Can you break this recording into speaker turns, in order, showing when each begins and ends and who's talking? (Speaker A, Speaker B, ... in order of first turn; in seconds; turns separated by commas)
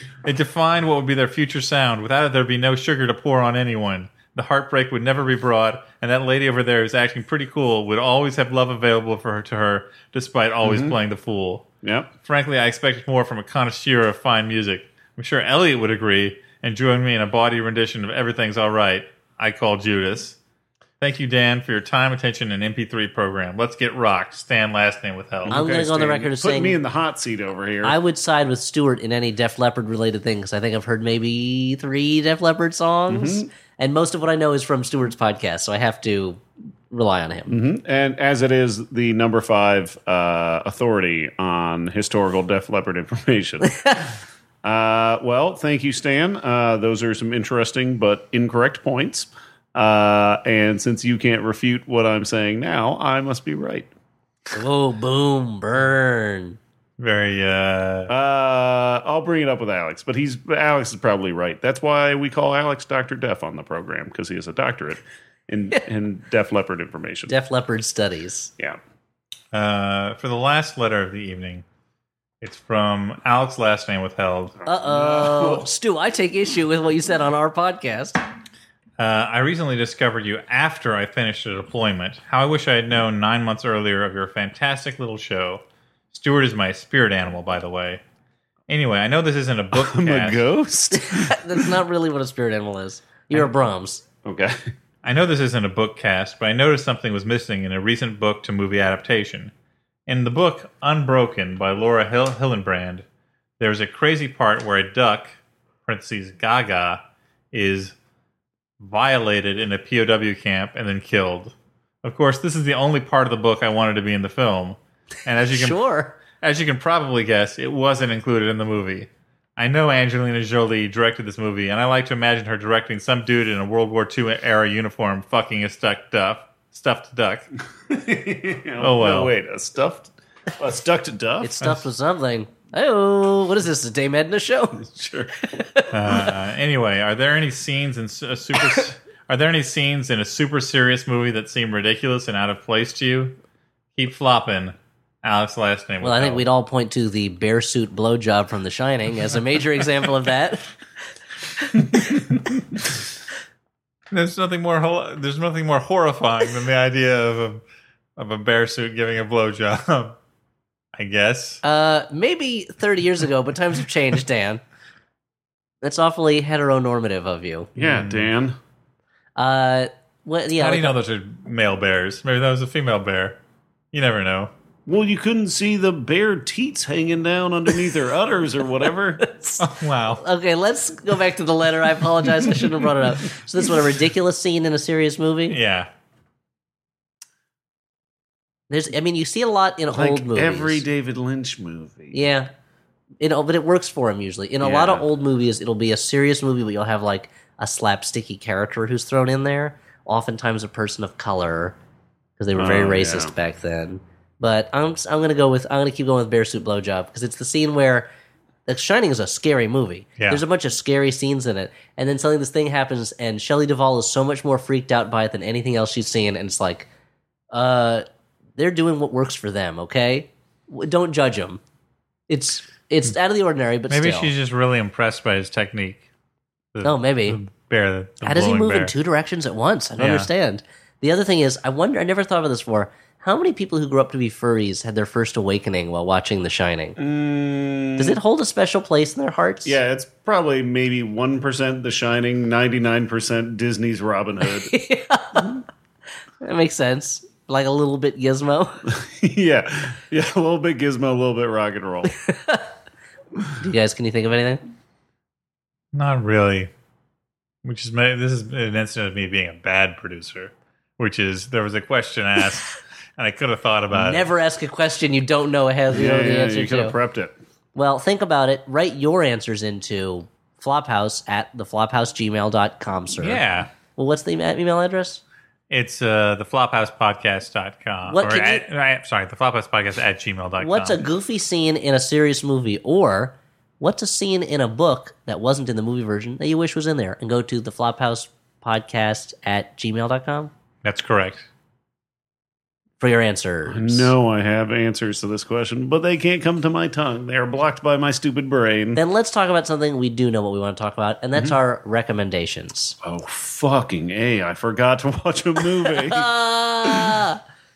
Speaker A: 0.2-11.7, Speaker B: 10.6-10.9, Speaker B: 11.8-12.1, Speaker A: 12.2-20.4, Speaker A: 21.0-25.6, Speaker B: 25.4-28.0, Speaker C: 25.5-26.8, Speaker C: 27.8-37.5, Speaker B: 33.1-33.5, Speaker B: 37.5-44.0, Speaker B: 44.6-53.9, Speaker C: 54.5-56.6, Speaker A: 57.0-58.1, Speaker B: 58.1-67.3, Speaker C: 67.3-68.5, Speaker A: 69.5-71.6, Speaker A: 72.4-74.5, Speaker B: 74.6-75.7, Speaker C: 74.7-78.2, Speaker A: 79.0-88.0, Speaker A: 88.7-90.4, Speaker B: 89.7-91.7, Speaker C: 91.0-94.0, Speaker B: 94.2-94.7, Speaker A: 95.0-99.5, Speaker A: 100.1-103.0, Speaker A: 103.6-107.0, Speaker A: 107.5-108.0, Speaker A: 108.8-115.8, Speaker C: 115.5-116.2, Speaker A: 116.4-127.5, Speaker B: 127.9-131.6, Speaker A: 128.8-129.3, Speaker C: 131.4-134.8, Speaker B: 134.8-135.3, Speaker C: 135.4-136.2, Speaker A: 135.9-143.4, Speaker A: 144.0-146.5, Speaker C: 146.0-150.7, Speaker C: 151.6-152.2, Speaker A: 154.1-157.6, Speaker A: 158.2-160.2, Speaker A: 160.9-161.6, Speaker C: 161.6-164.6, Speaker C: 165.8-167.7, Speaker B: 167.8-168.6, Speaker A: 167.8-168.3, Speaker C: 169.4-171.0, Speaker A: 170.6-173.4, Speaker A: 173.9-174.5, Speaker B: 174.9-179.2, Speaker C: 179.2-179.7, Speaker A: 179.6-180.2, Speaker C: 180.2-185.6, Speaker A: 185.5-185.9, Speaker C: 188.7-190.8, Speaker B: 189.9-192.2, Speaker C: 192.1-192.5, Speaker C: 193.2-201.8, Speaker B: 194.6-195.1, Speaker C: 202.4-208.1, Speaker B: 202.6-203.3, Speaker C: 208.7-216.9, Speaker C: 217.5-218.1, Speaker C: 218.6-221.6, Speaker C: 222.3-224.3, Speaker A: 223.9-226.0, Speaker A: 226.8-228.9, Speaker C: 226.8-227.4, Speaker C: 228.2-237.0, Speaker A: 230.0-230.3, Speaker B: 237.0-238.2, Speaker C: 238.0-239.8, Speaker B: 239.7-244.7, Speaker C: 244.5-245.6, Speaker C: 246.4-248.8, Speaker B: 248.9-252.1, Speaker C: 252.1-252.7, Speaker C: 253.6-254.6, Speaker A: 255.9-256.7, Speaker A: 257.6-264.3, Speaker C: 263.9-266.9, Speaker B: 265.9-267.4, Speaker C: 267.8-275.2, Speaker A: 273.2-273.7, Speaker A: 275.7-281.0, Speaker C: 278.1-278.6, Speaker C: 280.6-290.5, Speaker A: 290.8-291.5, Speaker C: 293.0-294.1, Speaker B: 293.7-299.0, Speaker C: 298.9-303.0, Speaker B: 303.0-306.3, Speaker C: 305.9-307.4, Speaker B: 306.9-307.2